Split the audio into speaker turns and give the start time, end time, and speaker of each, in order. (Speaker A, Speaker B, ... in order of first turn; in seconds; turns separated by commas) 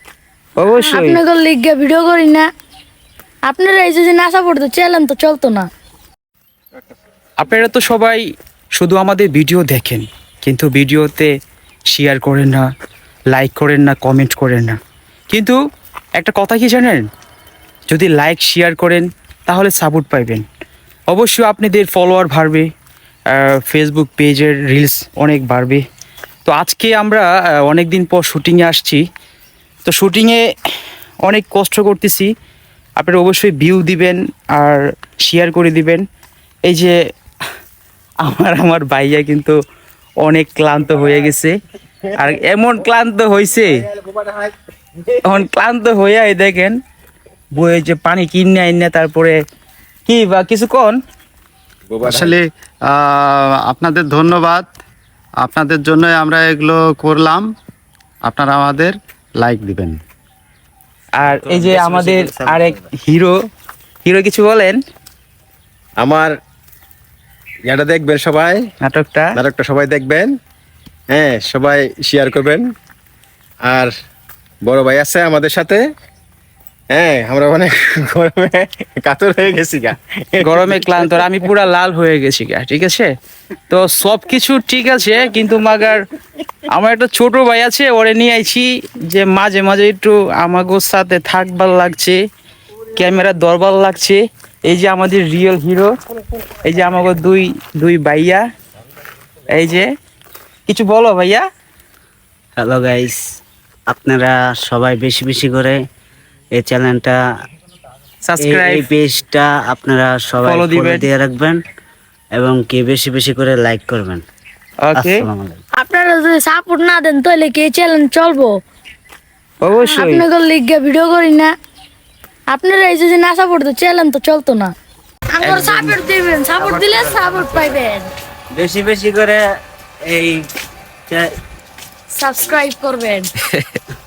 Speaker A: 0.6-1.2, Speaker B: 0.8-2.5, Speaker B: 3.5-5.7, Speaker A: 7.4-8.2, Speaker A: 8.8-11.3, Speaker A: 11.9-12.6, Speaker A: 13.3-14.8, Speaker A: 15.3-15.6, Speaker A: 16.2-17.0, Speaker A: 17.9-20.4, Speaker A: 21.1-22.7, Speaker A: 23.3-25.8, Speaker A: 26.4-29.0, Speaker A: 29.9-30.4, Speaker A: 31.2-32.3, Speaker A: 33.0-36.0, Speaker A: 36.7-36.9, Speaker A: 38.2-39.5, Speaker A: 40.2-41.5, Speaker A: 42.1-43.8, Speaker C: 44.0-44.5, Speaker A: 45.2-46.8, Speaker A: 47.5-49.4, Speaker A: 50.1-51.0, Speaker C: 51.9-52.3, Speaker D: 52.0-54.7, Speaker D: 55.4-57.5, Speaker D: 58.2-60.0, Speaker A: 61.2-63.3, Speaker E: 61.2-62.8, Speaker A: 64.0-64.8, Speaker C: 66.0-66.3, Speaker C: 67.7-68.6, Speaker A: 68.8-69.3, Speaker C: 69.3-70.3, Speaker C: 71.1-72.7, Speaker C: 73.6-73.9, Speaker C: 74.6-75.8, Speaker C: 76.9-81.2, Speaker A: 80.4-83.1, Speaker A: 83.7-86.0, Speaker A: 86.7-92.2, Speaker A: 92.9-95.9, Speaker A: 96.6-98.4, Speaker A: 99.5-99.9, Speaker A: 100.7-101.4, Speaker E: 102.6-103.2, Speaker E: 103.9-105.8, Speaker E: 106.5-107.2, Speaker A: 108.3-108.9, Speaker E: 108.4-111.6, Speaker A: 110.4-111.1, Speaker E: 112.3-114.2, Speaker A: 114.8-115.3, Speaker E: 115.0-115.6, Speaker B: 115.8-118.5, Speaker A: 119.6-120.2, Speaker B: 119.8-121.5, Speaker B: 122.5-124.7, Speaker B: 125.3-128.1, Speaker A: 125.4-126.0, Speaker E: 126.6-127.7, Speaker E: 128.5-129.4, Speaker E: 130.0-130.4, Speaker B: 132.1-133.3, Speaker A: 133.5-133.8